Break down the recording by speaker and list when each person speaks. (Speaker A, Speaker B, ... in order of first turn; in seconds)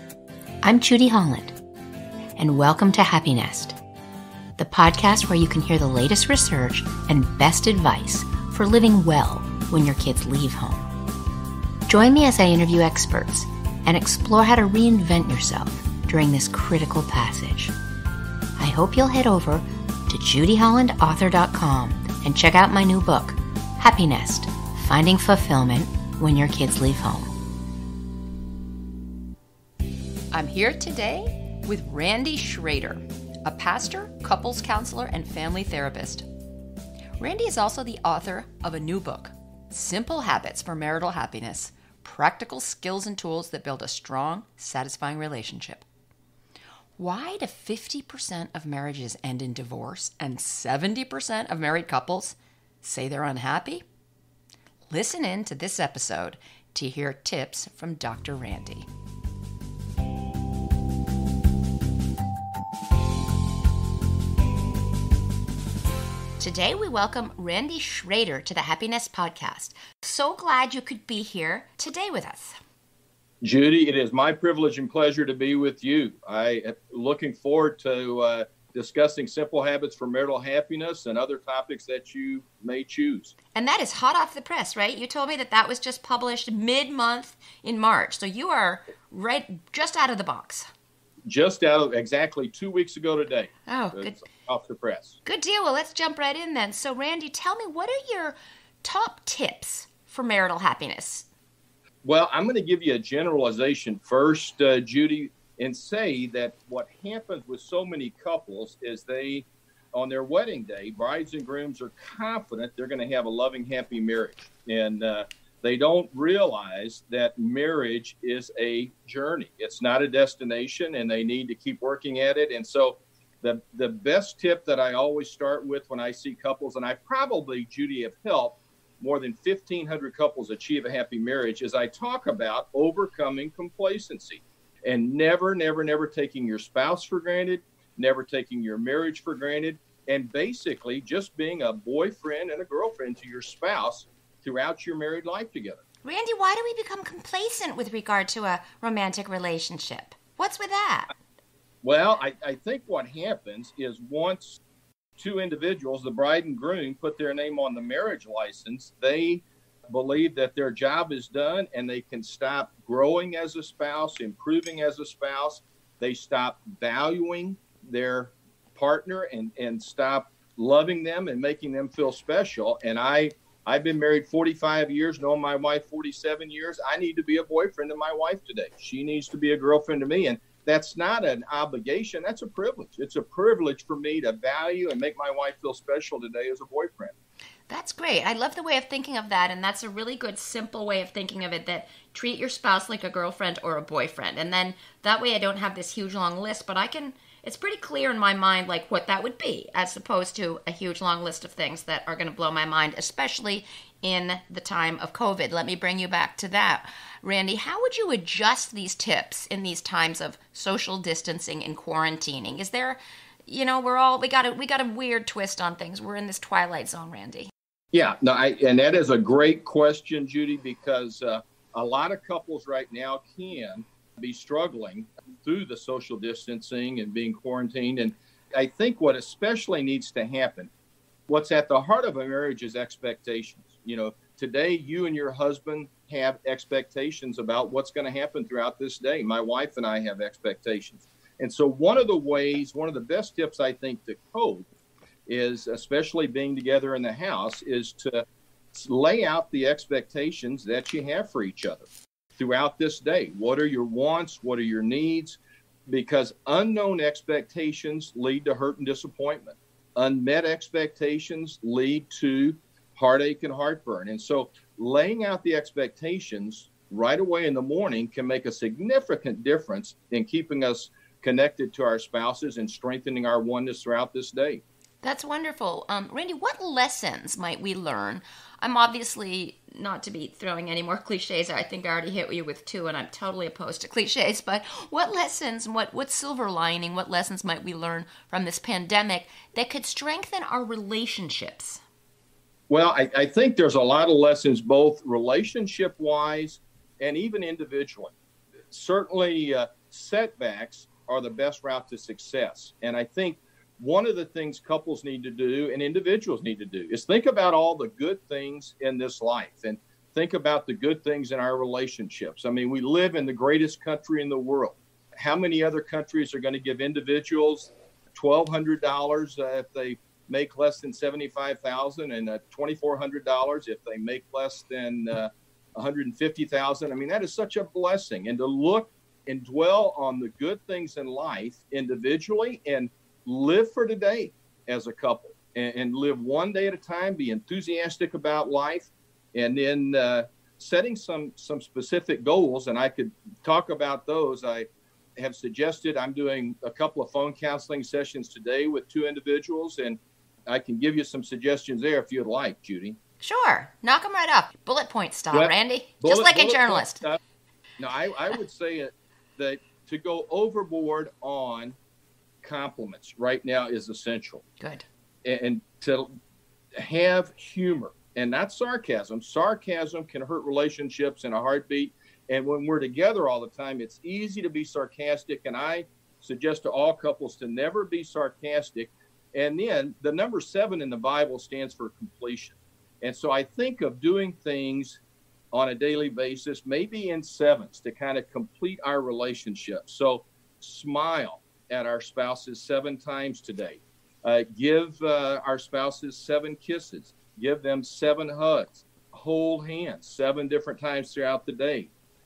Speaker A: 0.6-1.6, 2.4-3.8, 4.6-10.9, 11.9-17.7, 18.6-27.4, 30.3-36.3, 37.2-45.9, 47.0-53.8, 54.9-58.9, 66.4-72.6, 83.5-90.7, 93.7-94.2, 95.2-101.3, 146.0-151.1, 187.7-217.5, 275.0-291.8, 353.2-357.0, 364.6-364.9
Speaker B: 73.4-83.3, 91.3-95.2, 102.0-145.8, 151.8-154.6, 155.2-187.1, 217.9-230.7, 231.3-244.7, 245.3-274.6, 292.7-298.1, 298.7-353.0, 355.3-357.2, 357.8-361.8, 362.4-364.4, 365.2-366.1, 366.8-385.0, 385.5-401.9